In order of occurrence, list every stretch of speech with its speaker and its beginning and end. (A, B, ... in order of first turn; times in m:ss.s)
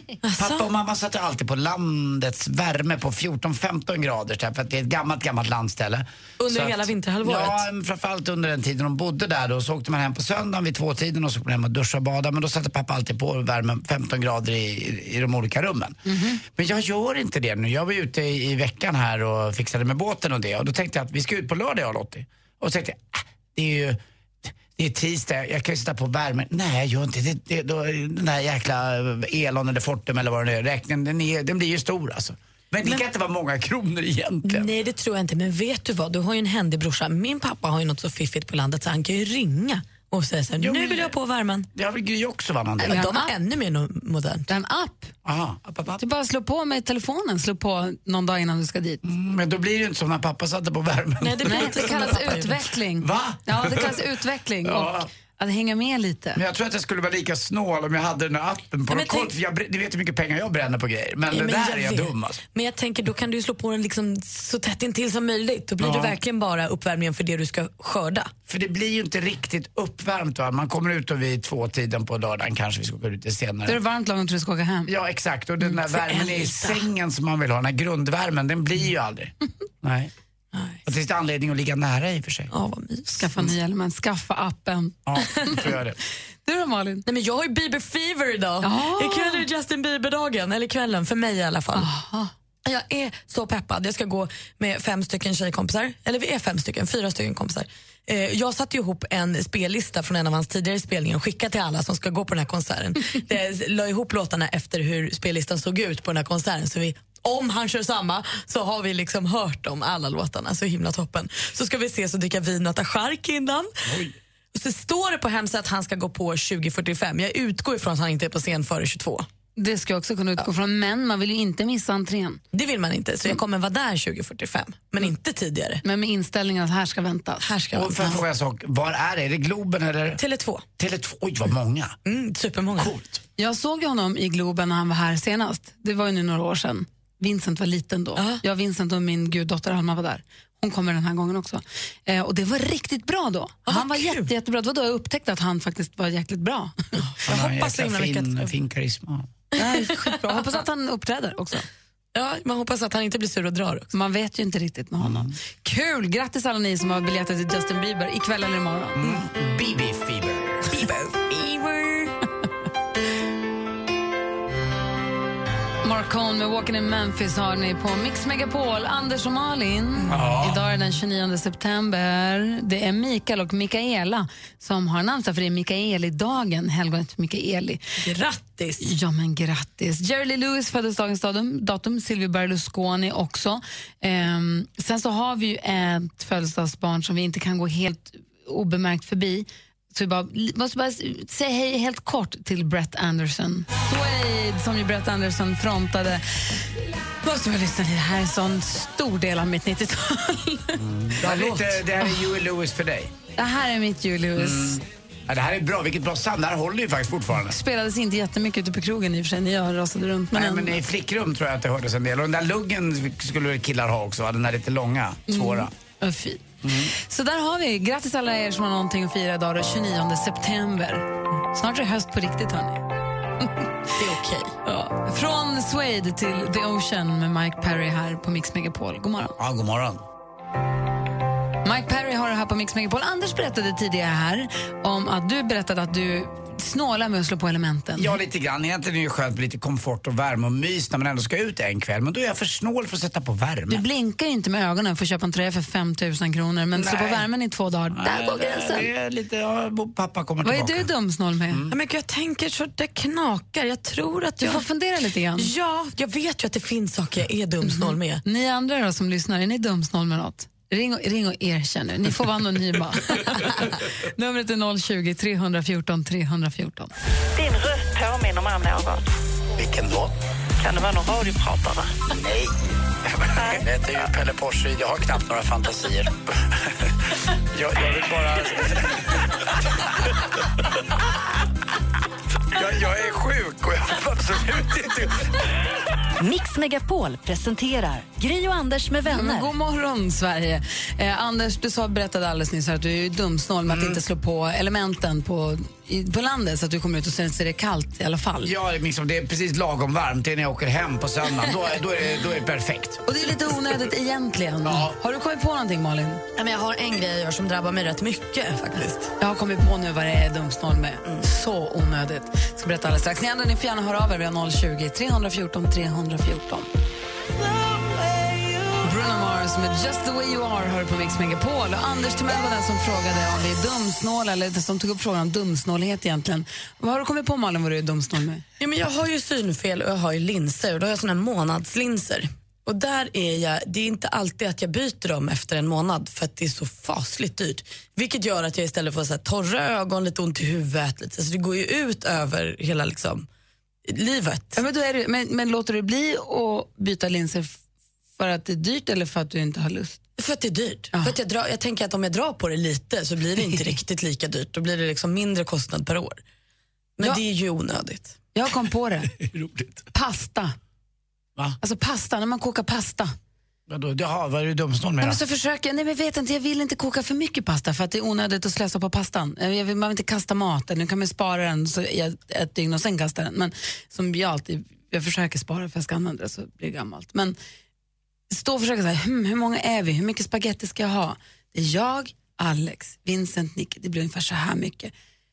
0:00.2-0:00.7 A
0:00.4-0:34.7 B
0:06.4-0:07.6 A
0:16.0-0:16.4 C
0:34.4-0:41.7 A
0:40.6-0:41.2 B
0:41.7-0:43.0 B
0:42.8-0:44.5 A
0:42.8-0:43.3 C
0:44.5-0:45.1 C
0:45.2-0:46.0 B
0:46.0-0:49.0 C
0:49.0-0:52.1 B
0:51.2-0:52.6 A
0:51.4-0:56.4 C
0:53.0-0:54.0 B
0:54.6-0:55.1 B
0:56.4-1:02.4 B
0:58.9-0:59.3 A
1:01.3-1:08.3 A
1:05.8-1:06.2 B
1:08.5-1:13.8 B
1:13.6-1:14.9 C
1:14.9-1:20.1 B
1:15.6-1:16.9 A
1:20.5-1:20.8 A
1:20.8-1:22.5 B
1:22.5-1:23.3 A
1:23.1-1:25.0 C
1:25.0-1:26.0 B
1:25.4-1:25.6 A
1:26.4-1:27.0 C
1:27.0-1:31.9 A
1:28.6-1:29.4 C
1:31.7-1:32.3 C
1:32.6-1:53.7 A
1:53.9-1:54.1 B
1:54.5-1:59.2 A
1:59.6-2:02.4 C
2:02.5-2:05.8 A
2:05.8-2:07.5 C
2:07.4-2:08.2 A
2:07.7-2:10.2 B
2:10.2-2:10.6 A
2:10.8-2:12.0 B
2:12.0-2:12.9 A
2:12.8-2:13.2 B
2:13.4-2:26.7 C
2:18.2-2:18.4 A
2:23.7-2:24.3 A
2:27.0-2:28.5 A
2:27.3-2:29.3 B
2:29.6-2:30.3 A
2:29.6-2:31.6 C
2:32.1-2:33.9 A
2:33.9-2:39.0 C
2:35.0-2:35.3 B
2:39.0-2:40.8 B
2:40.7-2:42.1 A
2:45.8-2:57.8 C
2:50.1-2:50.6 B
2:58.0-2:58.8 A
2:58.8-3:16.6 C
3:17.2-3:22.2 C
3:20.8-3:23.1 B
3:23.4-3:24.8 C
3:24.4-3:27.6 B
3:27.4-3:30.8 C
3:30.3-3:35.7 B
3:35.3-3:42.8 C
3:36.6-3:36.9 B
3:44.0-3:44.5 A
3:44.6-3:49.4 C
3:49.4-3:50.0 B
3:51.6-3:58.2 C
3:58.0-4:03.8 B
4:03.7-4:08.9 C
4:06.7-4:07.3 B
4:07.9-4:10.9 B
4:10.4-4:11.6 C
4:11.5-4:11.7 B
4:11.7-4:14.6 A
4:14.4-4:15.5 C
4:15.4-4:18.2 A
4:17.6-4:23.5 C
4:24.2-4:26.9 C
4:27.4-4:29.1 D
4:29.6-4:30.1 B
4:30.6-4:32.0 D
4:32.1-4:32.5 B
4:33.1-4:36.2 B
4:37.5-4:39.2 B
4:42.5-4:45.2 B
4:46.2-4:49.5 E
4:49.1-4:58.5 C
4:53.7-4:54.0 B
4:58.4-5:03.0 B
5:03.0-5:06.2 C
5:04.6-5:04.9 B
5:06.4-5:09.1 A
5:09.2-5:16.7 C
5:18.8-5:28.4 C
5:28.6-5:43.2 A
5:43.9-5:44.6 A
5:44.5-5:47.6 C
5:48.2-5:50.0 C
5:50.2-5:56.2 A
5:57.0-5:58.1 A
5:58.3-5:59.1 C
5:59.2-5:59.7 B
5:59.9-6:00.5 C
6:01.6-6:03.1 C
6:03.7-6:05.2 B
6:05.0-6:17.4 C
6:18.3-6:24.9 C